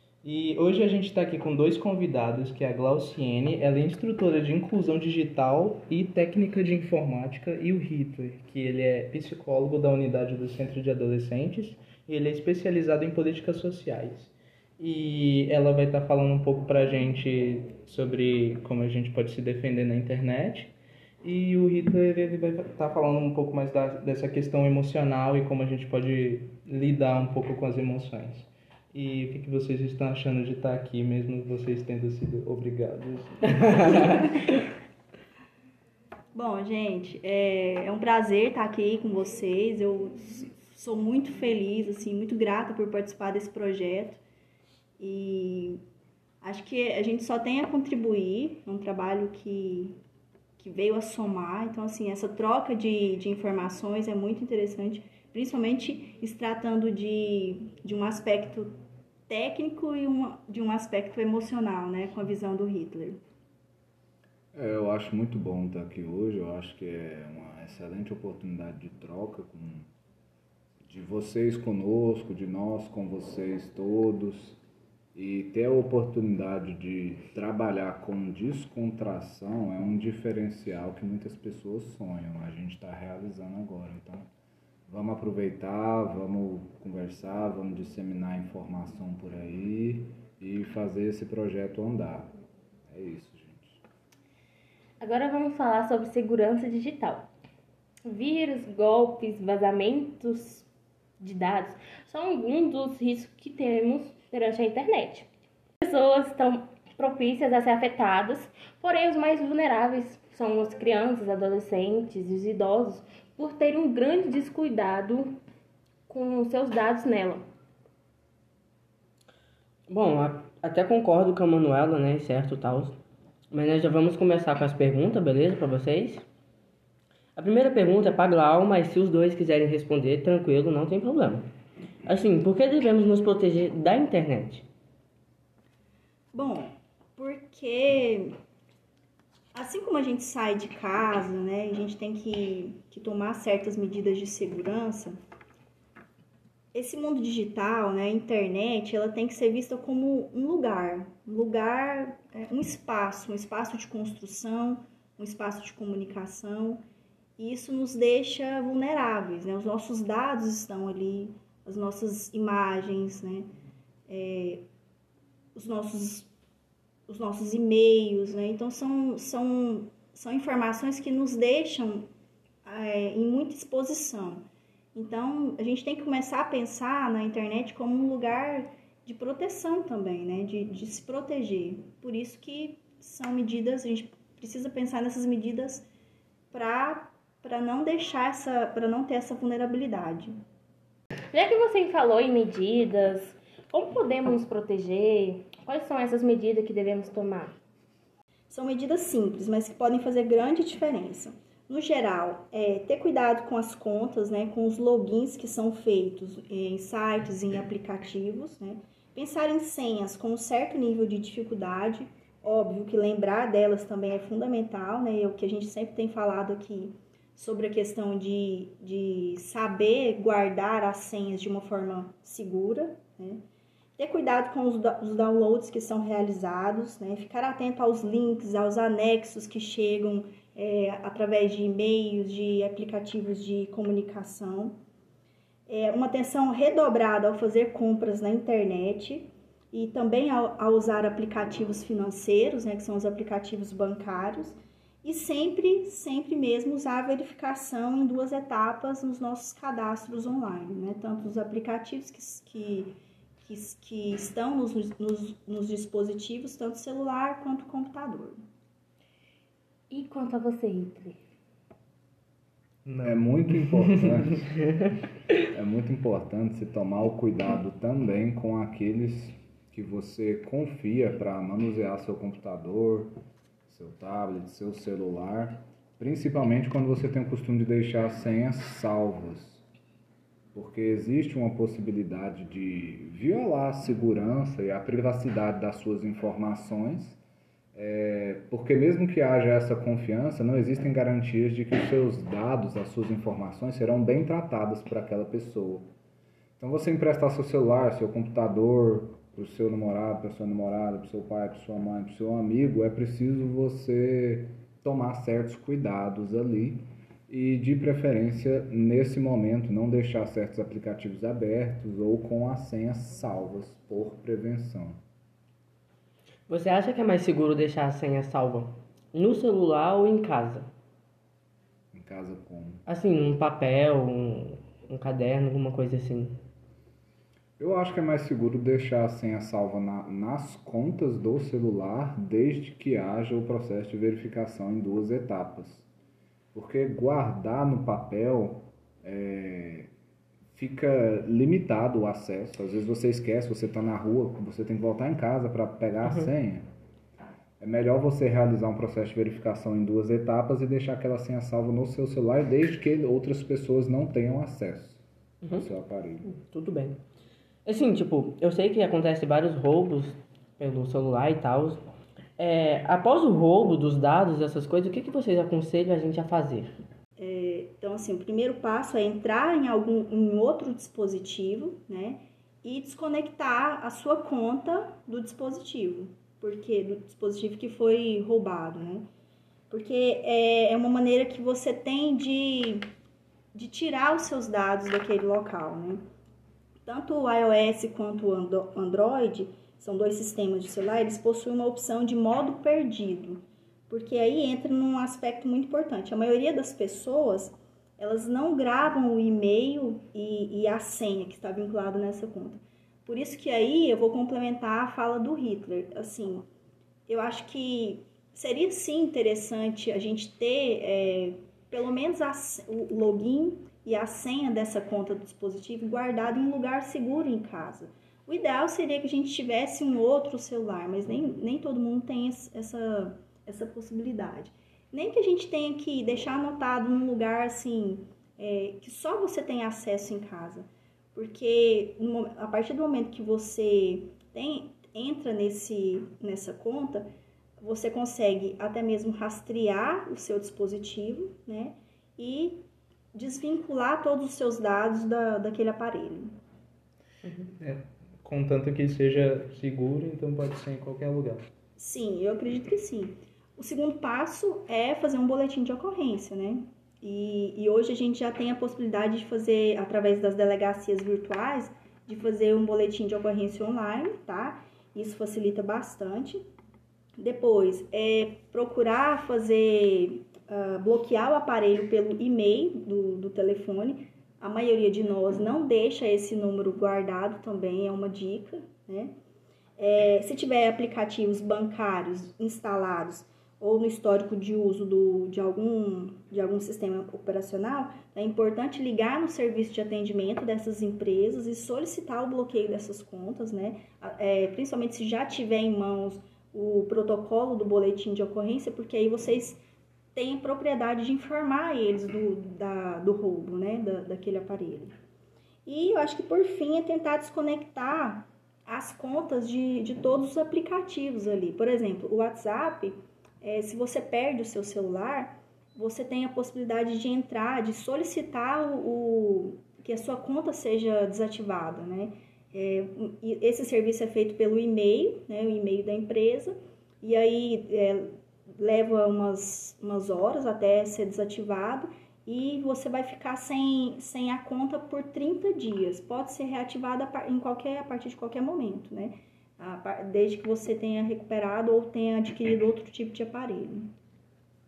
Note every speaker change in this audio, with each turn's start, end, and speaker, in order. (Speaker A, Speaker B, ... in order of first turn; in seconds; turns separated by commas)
Speaker A: 0.2-34.4, Speaker B: 33.6-34.1, Speaker C: 36.3-44.2, Speaker C: 45.0-45.8, Speaker C: 46.4-49.9, Speaker C: 50.6-58.7, Speaker C: 59.3-63.2, Speaker D: 64.5-69.9, Speaker D: 70.8-74.6, Speaker D: 75.1-84.3, Speaker D: 84.9-92.3, Speaker D: 92.9-93.8, Speaker E: 95.0-97.3, Speaker E: 98.0-100.7, Speaker E: 101.2-105.3, Speaker E: 105.8-115.3, Speaker E: 116.1-117.4, Speaker B: 119.9-123.0, Speaker B: 123.5-126.2, Speaker B: 127.3-131.4, Speaker B: 132.1-134.7, Speaker C: 136.3-138.3, Speaker C: 139.5-145.2, Speaker C: 146.7-156.8, Speaker C: 157.4-163.5, Speaker C: 164.1-164.6, Speaker C: 165.5-166.3, Speaker C: 167.1-172.1, Speaker C: 172.6-174.4, Speaker C: 174.9-185.8, Speaker C: 186.5-190.3, Speaker E: 191.3-197.5, Speaker C: 198.5-223.4, Speaker C: 224.0-234.8, Speaker C: 235.7-252.9, Speaker C: 253.4-258.4, Speaker E: 259.9-261.2, Speaker A: 262.8-264.5, Speaker D: 263.0-264.5, Speaker D: 265.5-273.1, Speaker D: 273.7-279.6, Speaker D: 280.5-287.2, Speaker D: 287.7-295.9, Speaker D: 296.6-315.0, Speaker B: 316.5-320.7, Speaker D: 321.9-322.8, Speaker B: 322.9-326.3, Speaker D: 327.6-335.9, Speaker D: 336.5-339.9, Speaker D: 340.5-346.6, Speaker D: 347.6-356.3, Speaker B: 356.2-357.0, Speaker B: 357.6-361.8, Speaker B: 362.4-366.7, Speaker C: 367.2-379.1, Speaker C: 379.7-382.8, Speaker C: 383.5-386.0, Speaker C: 386.8-406.4, Speaker C: 407.1-437.1, Speaker C: 437.6-442.6, Speaker C: 443.1-446.3, Speaker A: 447.4-451.5, Speaker C: 451.8-466.4, Speaker C: 467.2-479.1, Speaker C: 479.8-499.6, Speaker C: 500.1-504.9, Speaker C: 505.6-543.9